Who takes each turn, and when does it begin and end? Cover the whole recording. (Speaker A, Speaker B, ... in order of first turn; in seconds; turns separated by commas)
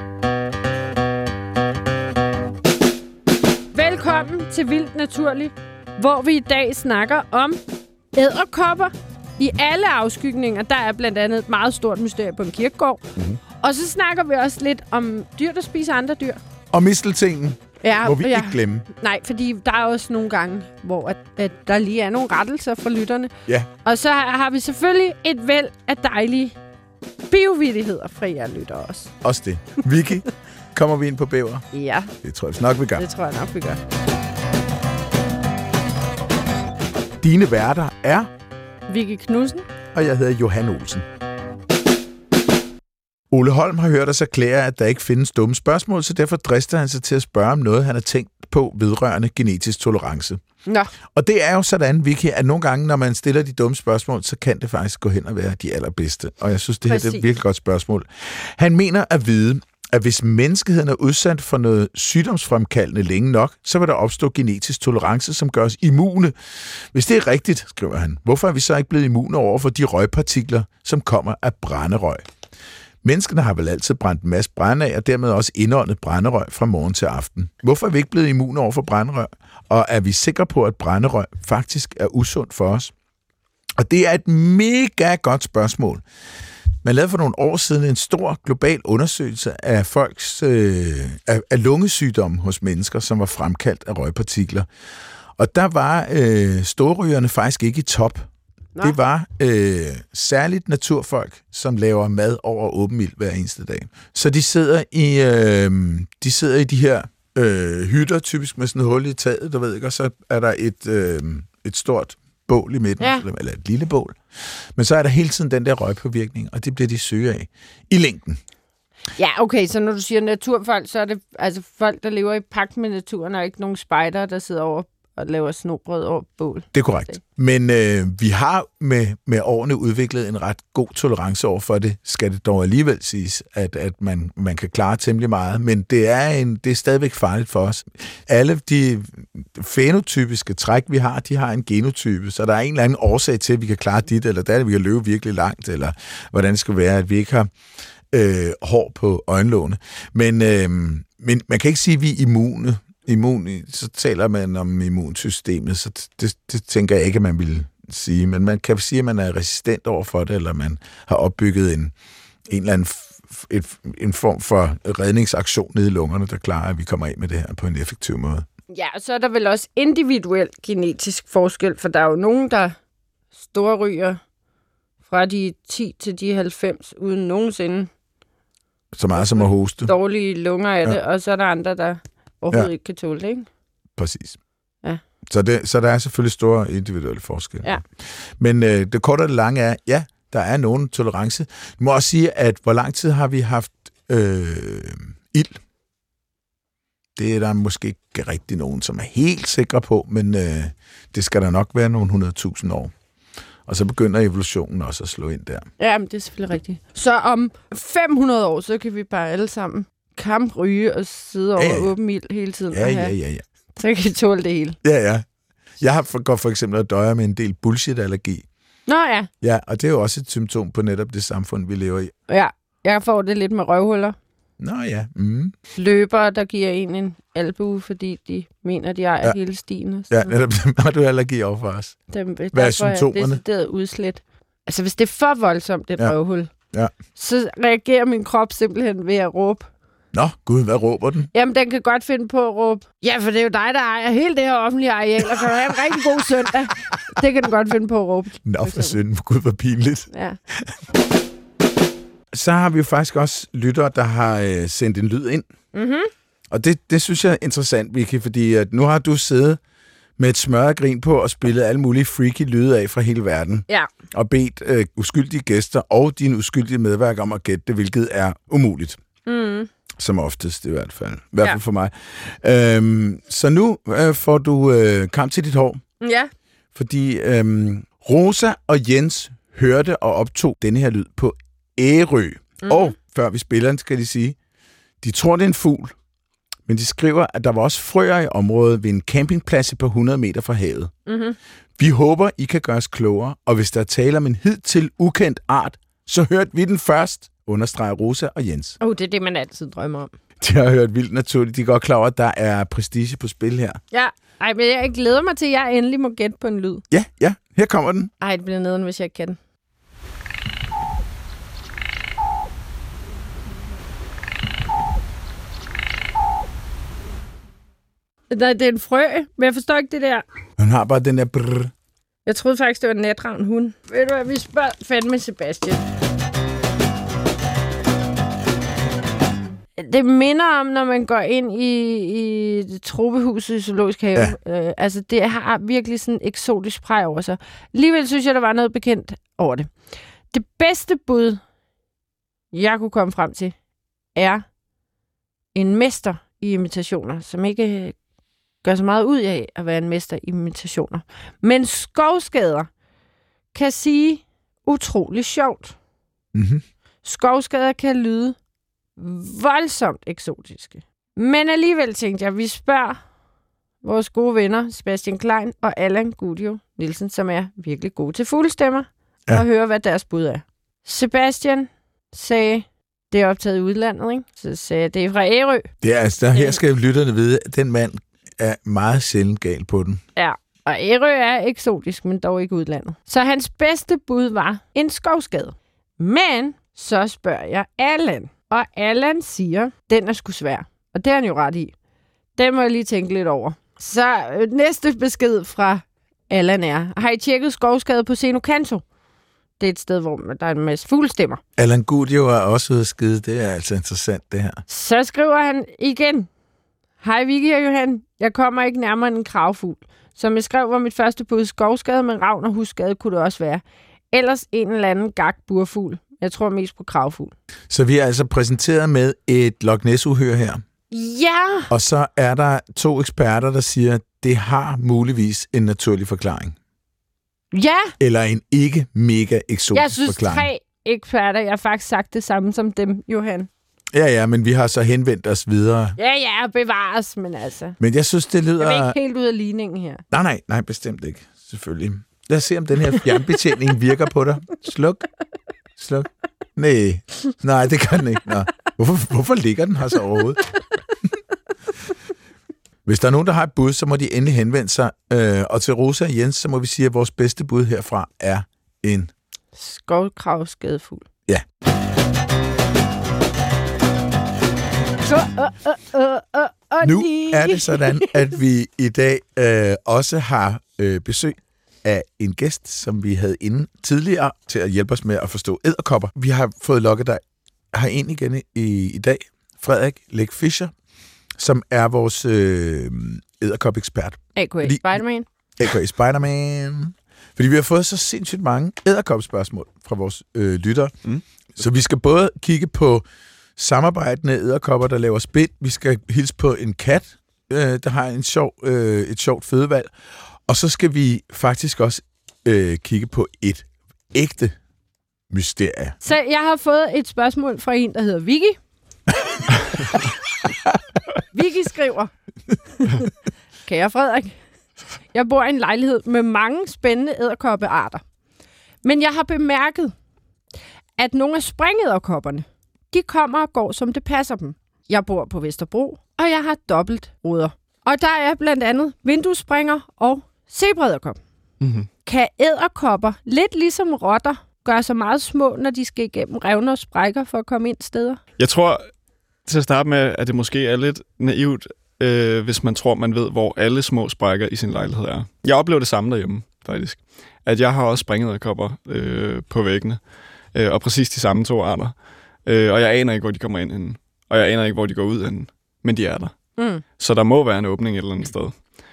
Speaker A: 3.7-7.6, Speaker A: 8.1-13.0, Speaker A: 13.6-16.4, Speaker B: 16.7-18.9, Speaker A: 17.8-23.3, Speaker A: 23.9-26.6, Speaker A: 27.3-29.1, Speaker B: 29.2-31.7, Speaker A: 31.7-32.1, Speaker B: 32.2-33.0, Speaker A: 33.0-33.8, Speaker B: 37.2-38.3, Speaker A: 38.9-39.7, Speaker B: 39.9-41.0, Speaker B: 43.3-50.4, Speaker A: 50.7-50.9, Speaker B: 51.1-72.3, Speaker A: 56.9-57.2, Speaker B: 73.0-82.9, Speaker B: 83.8-86.0, Speaker B: 86.8-94.7, Speaker B: 95.4-98.3, Speaker B: 98.8-118.4, Speaker A: 113.0-113.2, Speaker A: 119.2-127.2, Speaker B: 126.7-147.5, Speaker B: 148.1-161.9, Speaker B: 162.5-168.5, Speaker A: 168.7-172.8, Speaker A: 173.4-174.2, Speaker A: 175.1-177.9, Speaker B: 178.9-179.9, Speaker A: 179.2-183.5, Speaker B: 184.0-184.4, Speaker B: 185.3-195.6, Speaker B: 197.2-202.9, Speaker B: 203.7-205.7, Speaker A: 205.8-213.1, Speaker B: 211.6-211.9, Speaker B: 212.7-213.4, Speaker A: 213.8-214.8, Speaker B: 214.8-215.3, Speaker B: 215.8-218.5, Speaker A: 218.9-219.3, Speaker B: 219.4-222.1, Speaker A: 222.3-224.2, Speaker B: 224.6-225.5, Speaker A: 225.8-230.3, Speaker B: 230.1-232.0, Speaker A: 232.1-236.5, Speaker B: 232.5-233.4, Speaker A: 237.2-239.7, Speaker B: 240.1-241.3, Speaker A: 241.3-249.0, Speaker B: 248.4-250.7, Speaker A: 250.1-250.4, Speaker B: 252.3-255.5, Speaker A: 255.7-256.1, Speaker B: 256.5-259.6, Speaker B: 260.2-269.0, Speaker A: 269.3-269.7, Speaker B: 270.0-275.8, Speaker A: 276.0-276.3, Speaker B: 276.8-284.4, Speaker A: 282.6-282.9, Speaker B: 285.0-285.9, Speaker B: 286.7-290.9, Speaker A: 291.1-291.4, Speaker B: 291.8-298.8, Speaker A: 298.8-300.1, Speaker B: 300.4-303.8, Speaker A: 303.9-306.8, Speaker B: 306.9-308.1, Speaker A: 308.2-309.4, Speaker A: 318.3-320.2, Speaker B: 320.6-321.7, Speaker A: 322.3-325.8, Speaker A: 329.8-339.7, Speaker A: 340.3-341.4, Speaker A: 342.5-343.6, Speaker A: 344.1-344.4, Speaker A: 345.5-348.0, Speaker A: 348.6-352.7, Speaker A: 353.5-355.8, Speaker B: 356.3-356.6, Speaker A: 357.0-358.4, Speaker A: 359.0-363.0, Speaker A: 363.8-375.7, Speaker B: 375.8-380.0, Speaker A: 376.3-376.6, Speaker A: 380.2-391.7, Speaker A: 392.4-398.8, Speaker A: 399.6-401.4, Speaker B: 401.6-404.6, Speaker A: 404.7-406.3, Speaker A: 407.0-417.3, Speaker B: 417.7-420.6, Speaker A: 420.9-421.7, Speaker B: 421.7-426.6, Speaker A: 427.5-427.9, Speaker B: 428.0-430.5, Speaker A: 429.7-433.5, Speaker B: 433.9-436.0, Speaker A: 436.0-437.8, Speaker B: 437.8-438.9, Speaker A: 438.6-440.0, Speaker B: 440.1-445.1, Speaker B: 445.8-450.4, Speaker B: 452.9-459.1, Speaker A: 459.6-461.1, Speaker A: 465.1-468.3, Speaker B: 466.8-480.7, Speaker B: 481.4-485.0, Speaker A: 484.4-485.3, Speaker B: 485.6-490.9, Speaker B: 491.6-493.0, Speaker B: 493.6-499.9, Speaker B: 500.5-504.6, Speaker B: 505.3-506.0, Speaker A: 506.0-508.6, Speaker A: 511.3-512.1, Speaker A: 512.8-513.1, Speaker A: 513.6-514.4, Speaker A: 515.1-518.0, Speaker A: 518.8-519.9, Speaker A: 521.0-531.2, Speaker C: 531.6-531.9, Speaker A: 532.0-538.2, Speaker C: 538.4-538.9, Speaker C: 539.5-556.4, Speaker A: 556.6-556.8, Speaker C: 557.0-558.6